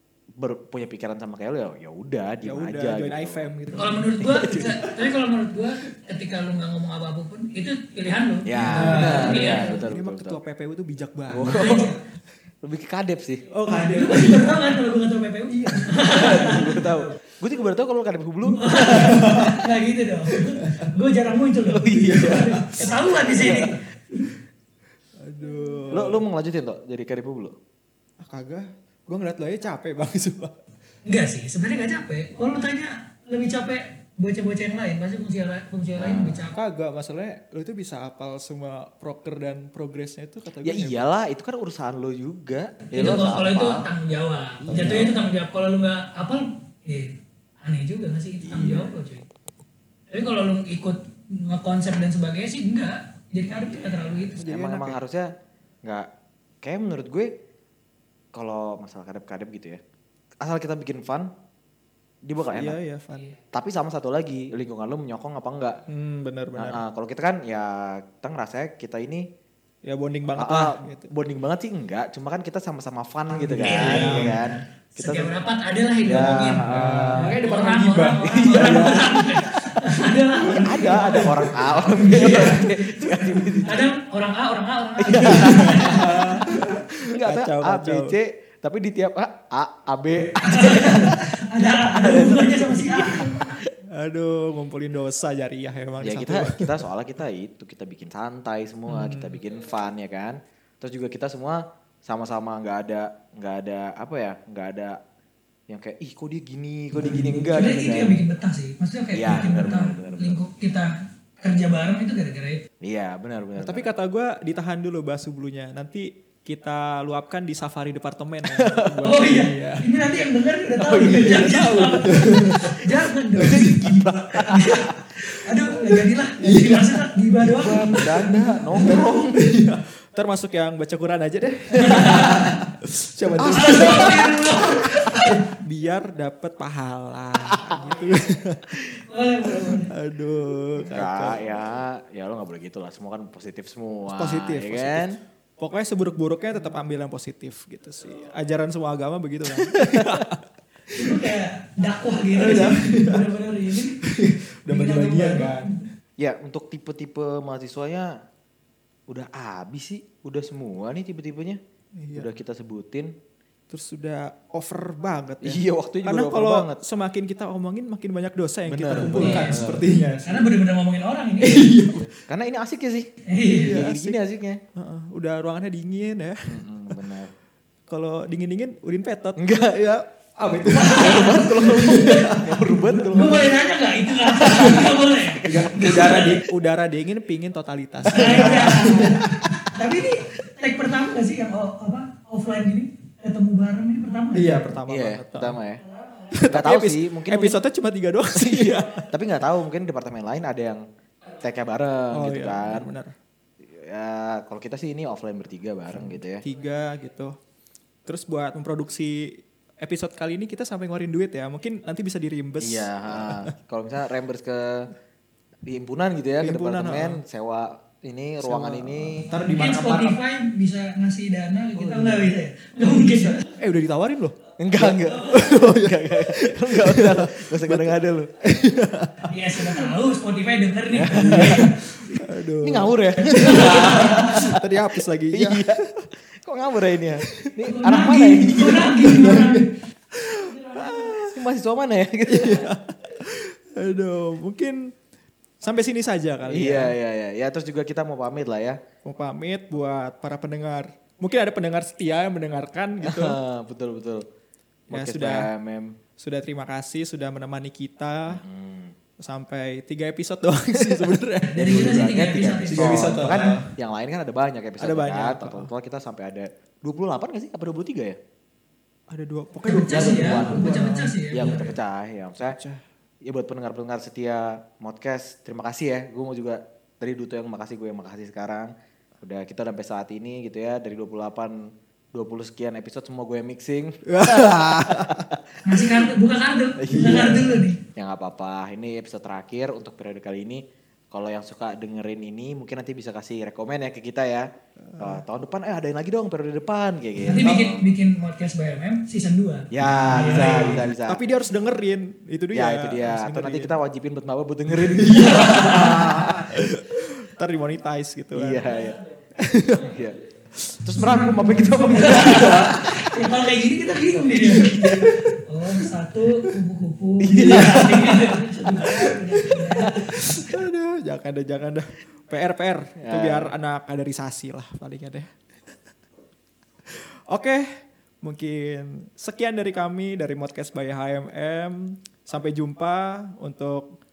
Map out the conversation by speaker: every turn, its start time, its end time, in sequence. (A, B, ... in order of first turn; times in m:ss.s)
0:00.4-0:03.5 A
0:02.4-0:04.9 B
0:03.8-0:09.8 C
0:04.2-0:04.9 A
0:08.5-0:10.4 A
0:08.5-0:12.0 B
0:11.3-0:12.0 A
0:11.4-0:12.0 C
0:12.6-0:13.5 A
0:13.5-0:14.8 B
0:13.7-0:16.9 C
0:15.5-0:17.0 B
0:16.0-0:19.7 A
0:18.5-0:24.3 C
0:18.9-0:19.6 B
0:20.6-0:20.9 B
0:21.7-0:23.8 A
0:21.8-0:22.9 B
0:25.2-0:26.2 B
0:25.9-0:27.6 A
0:28.2-0:30.6 B
0:31.1-0:36.6 C
0:36.0-0:36.5 A
0:36.5-0:41.0 B
0:40.6-0:43.9 A
0:42.9-0:49.3 C
0:44.6-0:45.2 A
0:44.7-0:45.2 B
0:48.5-0:48.9 A
0:48.5-0:48.8 B
0:50.1-0:54.4 C
0:54.4-0:55.0 B
0:54.4-0:55.3 A
0:56.6-0:57.3 A
0:58.3-0:59.8 A
1:00.4-1:01.3 A
1:02.2-1:02.8 A
1:02.5-1:03.3 B
1:03.5-1:05.8 A
1:05.9-1:06.8 B
1:06.6-1:09.3 A
1:09.8-1:11.1 B
1:10.3-1:15.3 A
1:13.5-1:14.6 B
1:13.6-1:14.4 C
1:15.0-1:22.9 C
1:16.0-1:17.4 A
1:16.1-1:19.4 B
1:18.2-1:19.3 A
1:20.4-1:23.5 B
1:20.4-1:23.9 A
1:23.6-1:26.5 C
1:25.0-1:33.6 A
1:25.3-1:28.2 B
1:30.4-1:33.5 C
1:33.3-1:36.8 B
1:36.0-1:45.0 A
1:38.9-1:39.4 B
1:45.7-1:48.2 A
1:47.0-1:47.5 B
1:47.5-1:52.6 C
1:49.1-1:50.4 A
1:52.8-1:53.8 A
1:53.6-1:59.9 B
1:58.5-1:59.0 A
1:59.0-2:09.0 C
2:00.8-2:03.9 B
2:01.0-2:01.8 A
2:03.4-2:05.0 A
2:05.7-2:18.8 B
2:07.4-2:09.4 A
2:11.7-2:12.6 C
2:13.4-2:14.3 A
2:13.4-2:15.4 C
2:17.4-2:17.8 A
2:18.9-2:19.9 C
2:19.5-2:21.5 B
2:20.8-2:25.2 A
2:24.1-2:31.4 B
2:29.5-2:30.3 A
2:30.9-2:34.0 C
2:32.4-2:35.8 B
2:34.7-2:35.8 C
2:36.2-2:38.2 A
2:39.1-2:41.6 A
2:42.0-2:42.3 B
2:42.1-2:43.1 A
2:43.7-2:50.5 B
2:45.4-2:46.8 A
2:48.7-2:49.9 A
2:49.1-2:49.7 C
2:50.2-2:51.8 C
2:51.4-2:52.1 B
2:51.9-2:53.1 A
2:53.3-2:53.8 C
2:53.4-2:54.2 B
2:53.6-2:54.6 A
2:54.8-2:56.5 B
2:56.5-2:57.3 A
2:57.9-2:59.5 B
2:59.4-3:00.0 A
3:00.4-3:03.5 B
3:00.7-3:03.7 A
3:03.1-3:06.4 C
3:04.4-3:09.7 B
3:05.4-3:05.7 A
3:08.1-3:14.7 C
3:08.1-3:08.9 A
3:14.3-3:15.6 B
3:14.9-3:15.8 A
3:16.0-3:16.3 C
3:16.3-3:19.1 B
3:16.5-3:17.6 A
3:18.4-3:22.9 A
3:22.1-3:23.2 B
3:23.6-3:26.4 A
3:25.9-3:27.4 B
3:28.1-3:33.5 B
3:32.6-3:34.9 A
3:35.6-3:39.3 A
3:36.4-3:37.2 B
3:38.4-3:40.2 B
3:39.4-3:43.5 C
3:41.8-3:42.3 B
3:42.9-3:49.9 B
3:44.6-3:48.4 A
3:49.2-3:51.8 C
3:50.9-3:54.6 A
3:51.2-3:56.1 B
3:53.3-3:54.4 C
3:55.3-3:55.8 A
3:56.4-3:59.3 A
3:57.2-3:57.5 B
3:57.7-3:59.7 C
3:58.6-4:01.4 B
4:00.5-4:01.0 C
4:00.8-4:02.7 A
4:02.3-4:05.0 B
4:05.6-4:07.0 B
4:06.5-4:08.8 A
4:09.0-4:13.4 B
4:13.0-4:14.3 A
4:14.9-4:16.0 A
4:14.9-4:15.5 B
4:16.2-4:18.4 B
4:18.3-4:19.0 A
4:19.2-4:22.0 B
4:20.8-4:28.2 A
4:21.5-4:23.5 C
4:22.7-4:23.7 B
4:24.8-4:25.7 B
4:29.1-4:31.8 B
4:29.6-4:31.6 C
4:29.9-4:30.8 A
4:31.3-4:32.6 A
4:32.4-4:32.8 B
4:33.2-4:45.4 A
4:44.1-4:45.4 B
4:45.6-4:47.8 C
4:46.8-4:57.9 A
4:46.9-4:47.5 B
4:54.8-4:55.2 B
4:57.2-5:00.8 C
4:59.7-5:01.2 A
4:59.8-5:03.8 B
5:02.5-5:06.6 A
5:04.8-5:08.7 B
5:05.1-5:06.2 C
5:08.3-5:09.0 A
5:09.4-5:10.0 B
5:09.7-5:10.2 A
5:10.8-5:13.2 A
5:11.0-5:20.1 C
5:12.3-5:12.6 B
5:14.3-5:16.6 B
5:17.2-5:19.1 A
5:17.4-5:17.9 B
5:18.7-5:25.3 B
5:19.8-5:20.4 A
5:23.0-5:23.5 A
5:26.9-5:34.0 B